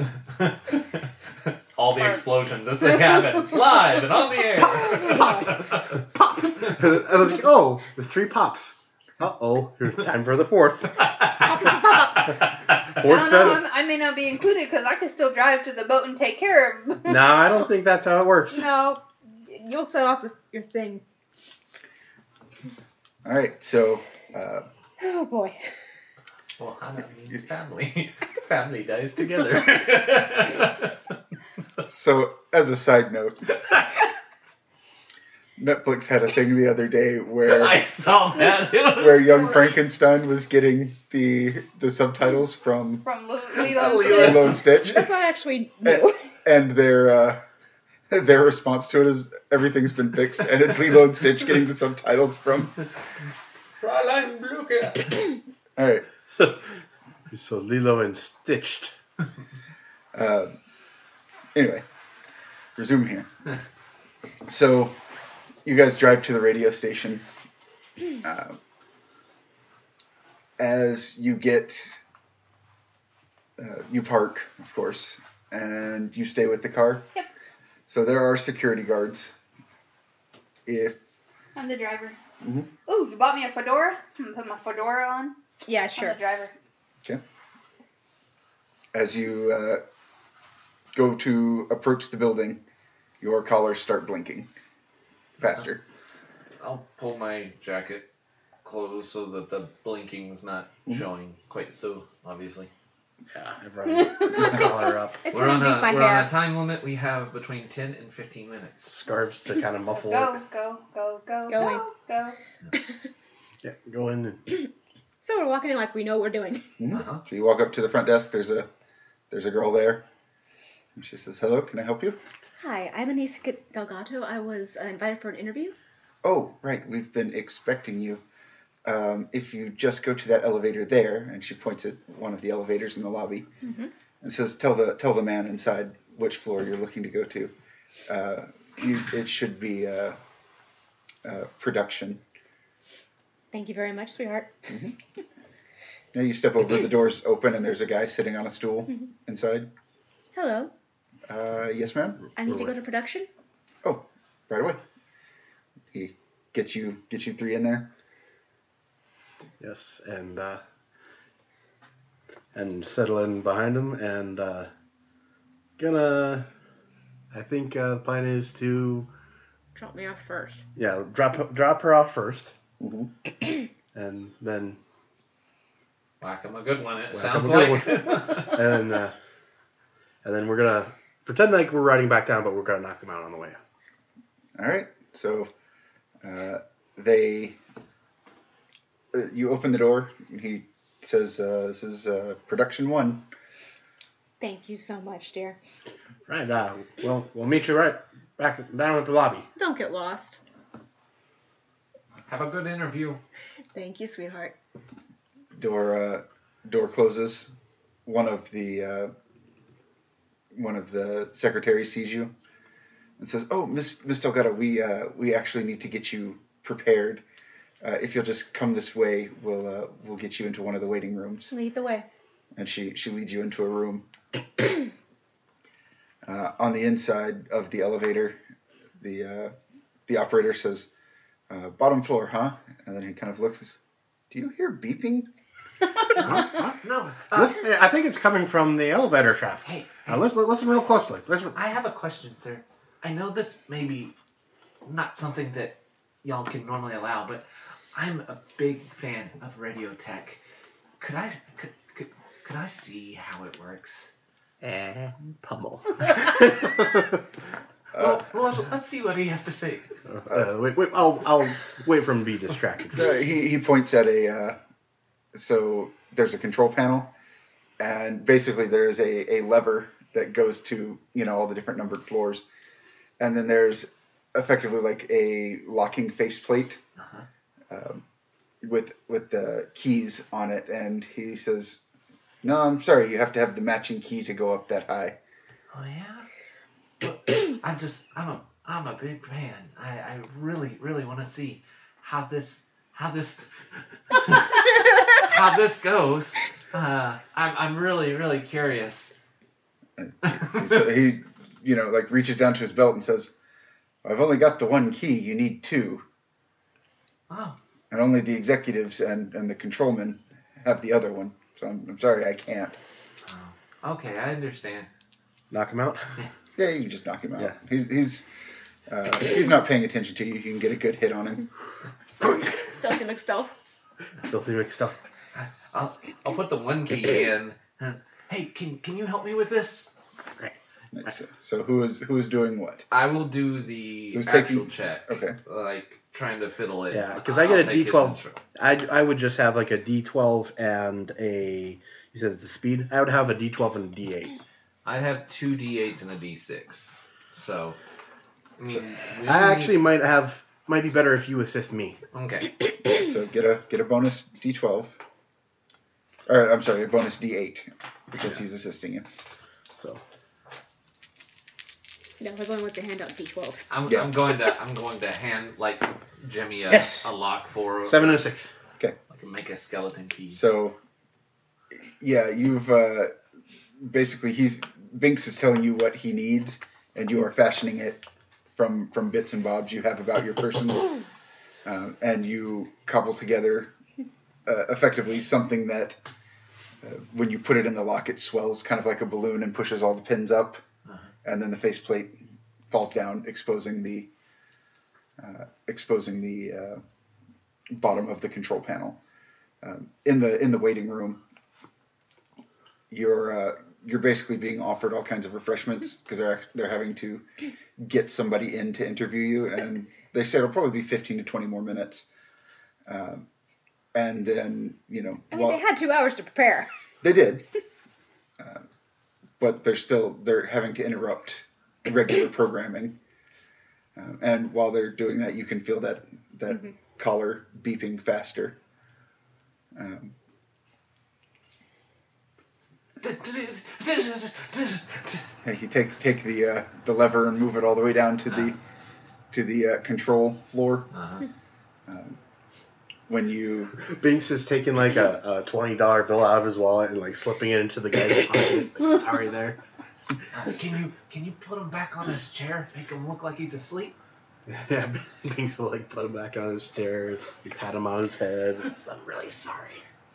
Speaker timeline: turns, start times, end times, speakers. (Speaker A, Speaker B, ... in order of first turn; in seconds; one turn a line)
Speaker A: 0.3-5.9
Speaker B: 4.6-11.7
Speaker C: 4.9-5.4
Speaker A: 11.0-12.8
Speaker B: 12.9-13.6
Speaker D: 13.0-17.2
Speaker B: 17.1-18.7
Speaker C: 18.5-21.0
Speaker E: 23.2-24.7
Speaker C: 25.0-25.6
Speaker A: 26.6-30.9
Speaker E: 31.9-33.5
Speaker A: 33.7-34.0
Speaker E: 35.6-37.9
Speaker A: 37.4-39.6
Speaker E: 39.0-43.0
Speaker D: 43.0-44.5
Speaker A: 43.6-44.9
Speaker E: 44.0-45.1
Speaker C: 44.5-46.3
Speaker E: 45.8-47.4
Speaker E: 48.1-52.8
Speaker A: 53.8-55.4
Speaker E: 55.8-56.1
Speaker B: 57.3-58.9
Speaker E: 60.1-60.5
Speaker E: 61.5-61.9
Speaker E: 62.8-63.3
Speaker E: 64.5-65.0
Speaker E: 65.7-67.3
Speaker E: 68.2-68.6
Speaker E: 70.6-72.0
Speaker E: 73.6-77.1
Speaker E: 77.9-79.3
Speaker E: 80.7-81.0
Speaker D: 81.5-82.2
Speaker E: 82.4-82.7
Speaker D: 82.9-85.4
Speaker C: 85.7-86.2
Speaker D: 85.9-86.5
Speaker E: 88.9-89.8
Speaker E: 90.9-92.6
Speaker E: 93.2-94.5
Speaker E: 95.4-95.8
Speaker A: 96.6-98.1
Speaker A: 98.6-102.7
Speaker B: 103.3-105.3
Speaker D: 104.2-104.5
Speaker C: 105.2-106.3
Speaker A: 105.3-108.9
Speaker B: 108.9-110.4
Speaker D: 109.9-112.4
Speaker C: 111.5-111.9
Speaker B: 113.6-114.5
Speaker C: 115.2-116.7
Speaker E: 116.8-118.7
Speaker A: 116.9-117.2
Speaker E: 119.3-120.1
Speaker E: 121.0-122.2
Speaker C: 122.6-125.8
Speaker E: 126.2-128.2
Speaker E: 128.8-133.5
Speaker C: 133.6-133.9
Speaker E: 134.2-137.5
Speaker E: 138.1-140.2
Speaker E: 141.2-142.2
Speaker C: 143.5-144.5
Speaker E: 144.7-145.0
Speaker E: 146.1-149.7
Speaker C: 150.3-150.7
Speaker E: 151.3-152.3
Speaker C: 152.4-153.3
Speaker E: 153.8-154.8
Speaker E: 155.9-157.9
Speaker B: 159.6-160.6
Speaker B: 162.5-164.7
Speaker B: 165.8-166.5
Speaker B: 167.3-169.1
Speaker C: 169.8-170.6
Speaker B: 170.8-172.6
Speaker E: 172.8-173.1
Speaker B: 173.9-174.8
Speaker A: 176.2-178.7
Speaker B: 177.1-179.2
Speaker B: 180.2-183.6
Speaker E: 184.6-185.5
Speaker E: 186.2-187.6
Speaker E: 189.1-193.3
Speaker C: 194.4-195.6
Speaker B: 196.3-199.5
Speaker C: 199.6-200.4
Speaker A: 202.3-203.2
Speaker C: 203.7-204.6
Speaker E: 205.6-207.5
Speaker E: 208.1-209.1
Speaker E: 210.5-212.3
Speaker E: 213.2-217.2
Speaker E: 217.8-221.5
Speaker C: 221.5-222.1
Speaker E: 222.6-224.1
Speaker E: 226.2-228.4
Speaker E: 229.0-229.5
Speaker E: 230.1-230.9
Speaker E: 231.5-233.8
Speaker E: 234.3-235.3
Speaker A: 236.2-237.6
Speaker B: 236.2-236.6
Speaker B: 237.3-241.6
Speaker A: 239.7-240.2
Speaker A: 241.5-244.2
Speaker A: 244.8-250.4
Speaker A: 251.0-254.1
Speaker B: 254.6-257.2
Speaker E: 257.9-258.2
Speaker A: 258.0-259.9
Speaker B: 260.1-263.1
Speaker E: 262.9-264.6
Speaker E: 265.3-267.1
Speaker E: 267.8-272.4
Speaker E: 273.2-276.8
Speaker A: 277.0-277.3
Speaker E: 277.7-278.0
Speaker E: 278.6-281.8
Speaker E: 282.4-285.2
Speaker A: 285.7-286.3
Speaker A: 287.0-293.5
Speaker A: 294.1-299.1
Speaker E: 300.0-303.3
Speaker A: 300.3-300.8
Speaker E: 304.0-306.1
Speaker A: 307.3-307.6
Speaker E: 307.9-312.8
Speaker A: 313.3-314.9
Speaker B: 315.5-316.1
Speaker E: 316.6-318.3
Speaker E: 318.9-321.5
Speaker B: 322.2-322.7
Speaker C: 322.7-323.6
Speaker B: 324.2-325.0
Speaker A: 325.3-329.9
Speaker E: 330.9-332.9
Speaker A: 332.9-338.4
Speaker E: 334.1-335.4
Speaker B: 336.9-344.4
Speaker A: 344.9-347.8
Speaker A: 348.6-349.8
Speaker B: 349.2-352.0
Speaker A: 352.1-352.5
Speaker E: 352.9-355.0
Speaker E: 356.3-359.1
Speaker C: 362.2-363.7
Speaker A: 363.7-368.3
Speaker B: 366.7-367.1
Speaker B: 367.9-368.5
Speaker A: 369.1-370.4
Speaker E: 370.3-370.8
Speaker E: 371.7-373.2
Speaker E: 373.8-381.0
Speaker E: 381.6-383.7
Speaker E: 384.5-386.0
Speaker E: 386.8-390.6
Speaker E: 391.2-392.2
Speaker E: 392.7-394.1
Speaker E: 395.2-396.8
Speaker E: 397.7-399.0
Speaker E: 399.6-401.2
Speaker E: 402.9-407.3
Speaker E: 407.8-412.1
Speaker E: 412.9-413.3
Speaker E: 413.9-415.6
Speaker C: 415.3-416.7
Speaker E: 417.0-417.5
Speaker E: 418.4-418.6
Speaker E: 419.4-423.0
Speaker E: 424.0-428.6
Speaker E: 429.8-430.1
Speaker A: 433.0-435.3
Speaker E: 435.4-438.6
Speaker E: 439.3-440.9
Speaker A: 440.9-441.3
Speaker E: 441.9-442.2
Speaker E: 443.1-443.8
Speaker B: 443.8-449.6
Speaker A: 450.3-453.9
Speaker B: 454.5-459.8